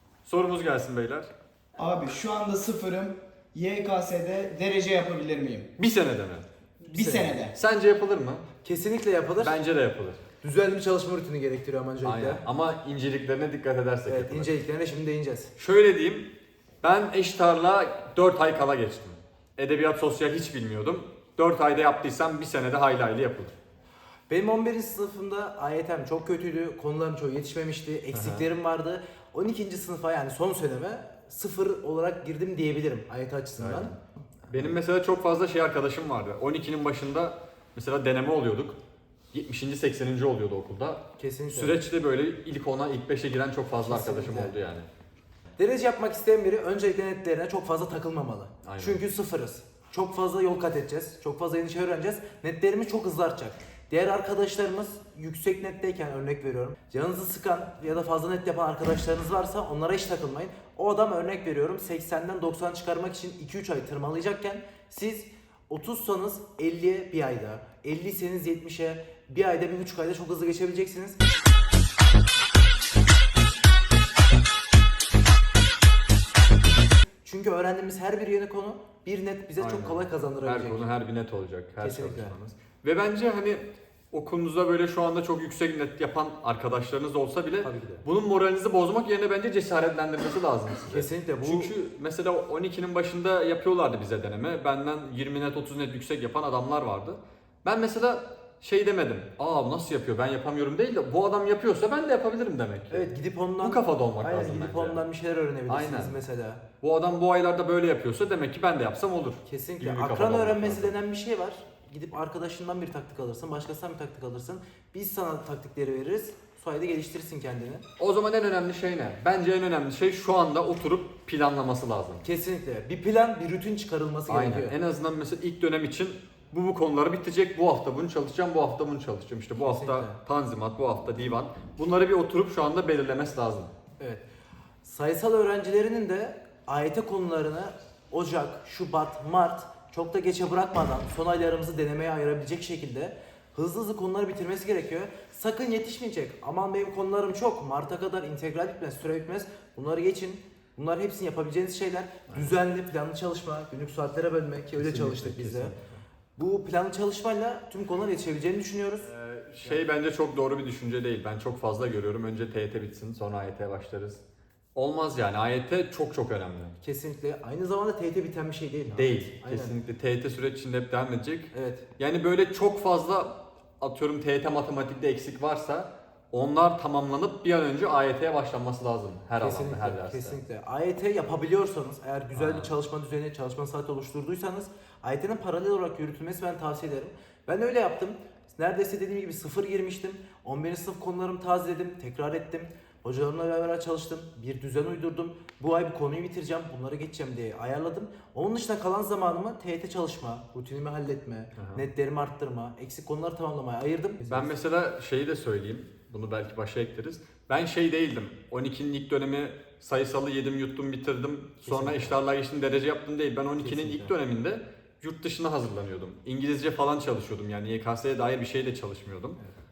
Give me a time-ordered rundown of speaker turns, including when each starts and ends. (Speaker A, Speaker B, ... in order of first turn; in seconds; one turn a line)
Speaker A: 0.2-1.3
Speaker B: 1.8-5.7
Speaker A: 5.8-6.5
Speaker B: 6.8-7.5
Speaker C: 6.9-7.4
Speaker A: 7.5-8.5
Speaker C: 8.6-9.5
Speaker A: 9.4-10.2
Speaker C: 10.4-12.4
Speaker A: 12.0-14.5
Speaker C: 14.1-15.5
Speaker A: 15.6-16.3
Speaker A: 16.8-23.6
Speaker C: 24.3-33.9
Speaker A: 28.1-28.5
Speaker A: 33.6-34.0
Speaker A: 34.5-38.8
Speaker A: 39.3-44.9
Speaker C: 41.2-41.8
Speaker C: 43.9-44.5
Speaker C: 45.6-71.2
Speaker A: 48.6-49.0
Speaker C: 77.2-80.9
Speaker A: 79.6-105.0
Speaker C: 81.8-82.3
Speaker C: 87.6-88.0
Speaker C: 90.9-91.7
Speaker C: 102.9-106.6
Speaker A: 105.7-106.2
Speaker A: 106.8-110.9
Speaker C: 109.4-117.8
Speaker A: 118.0-122.2
Speaker C: 122.2-124.8
Speaker A: 124.3-133.7
Speaker C: 129.6-130.2
Speaker C: 134.0-134.2
Speaker C: 134.8-155.7
Speaker A: 152.3-152.6
Speaker A: 154.8-156.0
Speaker C: 156.4-159.1
Speaker A: 159.0-164.2
Speaker A: 164.8-166.7
Speaker C: 166.8-169.8
Speaker A: 168.9-180.4
Speaker C: 171.5-171.8
Speaker C: 179.4-204.5
Speaker A: 182.3-182.7
Speaker A: 201.6-201.8
Speaker A: 204.2-219.4
Speaker C: 211.7-212.2
Speaker C: 213.6-214.1